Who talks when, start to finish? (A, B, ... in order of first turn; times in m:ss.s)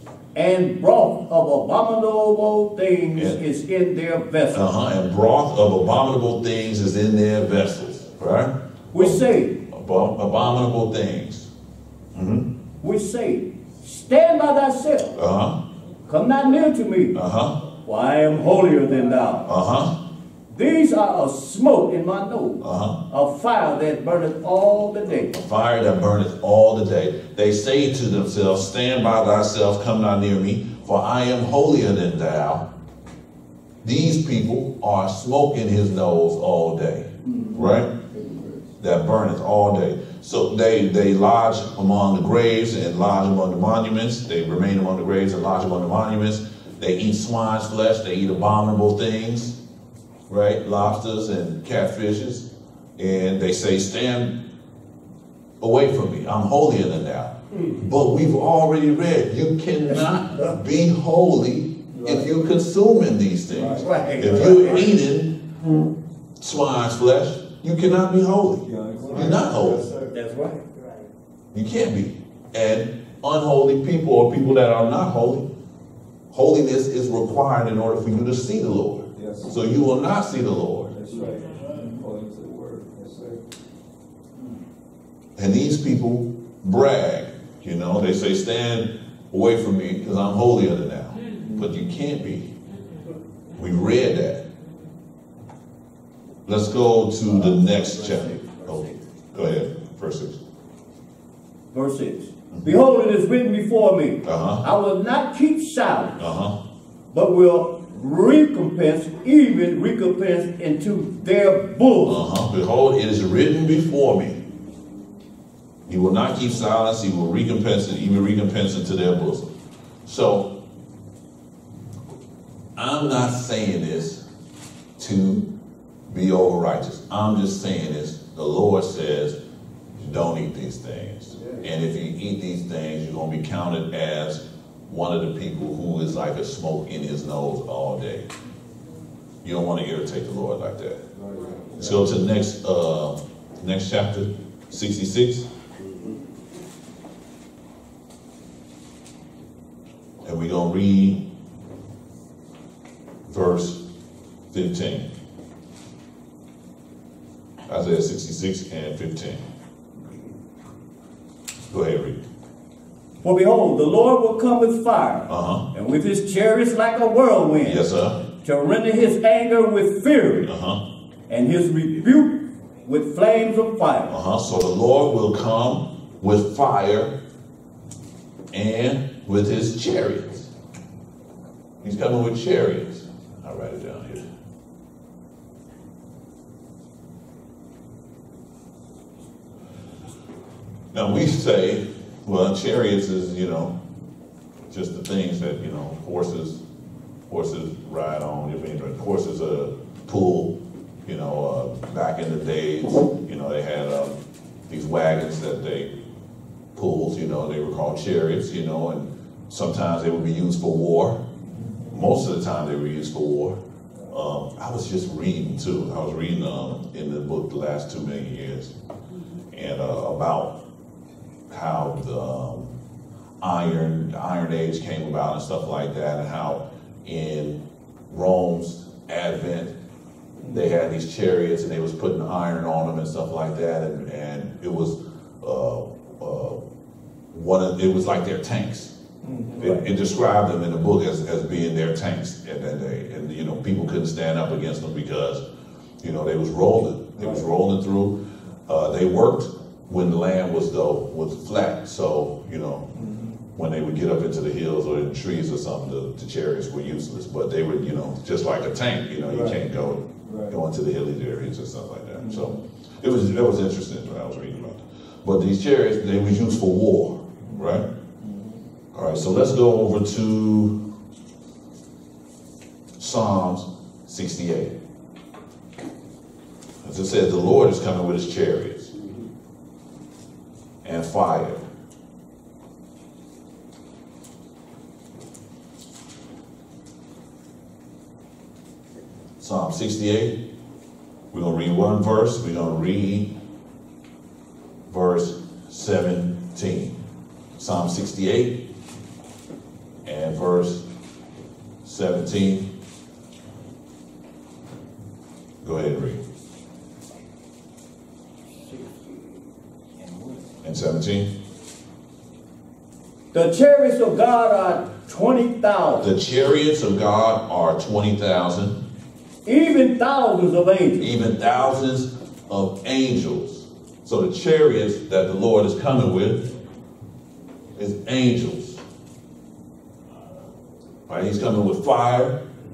0:00.3-0:04.7 A
0:03.1-0:03.4 B
0:04.5-0:11.5 B
0:08.9-0:09.6 A
0:12.1-0:12.5 B
0:12.8-0:15.2 A
0:15.2-0:15.6 B
0:16.1-0:17.2 A
0:17.1-0:17.6 B
0:17.8-0:19.5 A
0:19.4-0:20.0 B
0:20.5-0:25.4 A
0:22.6-0:23.0 B
0:25.3-0:32.7 B
0:33.8-0:37.9 B
0:38.1-0:38.7 C
0:38.8-0:49.6 B
0:50.3-0:54.4 B
0:55.6-1:05.4 B
1:01.9-1:02.3 C
1:03.5-1:04.8 C
1:03.8-1:04.9 A
1:06.4-1:09.8 B
1:08.6-1:10.1 C
1:10.1-1:10.7 A
1:11.5-1:15.5 B
1:16.3-1:20.9 B
1:19.1-1:19.5 C
1:20.9-1:23.4 C
1:25.4-1:32.5 B
1:31.4-1:31.7 C
1:33.5-1:34.4 B
1:36.4-1:40.4 B
1:37.5-1:39.0 A
1:41.7-1:46.2 A
1:44.2-1:44.6 B
1:46.2-1:46.6 B
1:47.1-1:52.2 A
1:52.0-1:54.4 B
1:55.9-1:59.5 B
2:00.0-2:00.5 B
2:02.8-2:04.2 B
2:05.0-2:05.4 B
2:06.1-2:09.4 B
2:09.9-2:18.3 B
2:19.4-2:21.0 B
2:21.1-2:22.1 C
2:21.8-2:25.5 B
2:30.2-2:31.2 B
2:33.3-2:33.8 B
2:34.5-2:35.1 B
2:37.7-2:39.4 B
2:41.7-2:42.2 B
2:43.2-2:47.8 A
2:45.3-2:45.7 B
2:47.6-2:48.2 B
2:48.4-2:50.5 A
2:50.4-2:50.8 B
2:51.3-2:54.1 A
2:54.1-2:57.1 B
2:58.5-3:00.5 B
3:01.8-3:04.2 B
3:10.9-3:13.7 B
3:14.7-3:16.6 B
3:17.3-3:25.9 B
3:26.7-3:31.2 B
3:31.5-3:31.9 C
3:31.9-3:33.6 B
3:34.1-3:38.7 B
3:39.5-3:40.6 B
3:41.5-3:42.7 B
3:43.4-3:49.7 B
3:50.5-3:56.6 B
3:57.3-3:58.9 B
3:59.2-3:59.7 C
3:59.6-4:05.4 B
4:06.0-4:12.9 B
4:07.2-4:07.4 C
4:12.9-4:13.4 C
4:13.5-4:27.8 B
4:19.2-4:19.6 C
4:20.2-4:20.6 C
4:22.2-4:22.6 C
4:28.2-4:28.6 C
4:28.9-4:30.8 B
4:33.0-4:34.8 B
4:36.8-4:38.9 B
4:40.8-4:41.6 B
4:49.4-4:50.4 B
4:51.3-4:53.3 B
4:54.9-4:57.0 B
4:57.6-4:58.6 B
5:00.0-5:00.9 B
5:01.8-5:02.7 B
5:05.6-5:06.2 B
5:08.7-5:09.1 A
5:10.6-5:11.3 B
5:13.3-5:16.1 A
5:16.0-5:18.8 B
5:19.4-5:21.1 A
5:21.0-5:26.4 B
5:27.8-5:28.8 B
5:31.1-5:32.4 B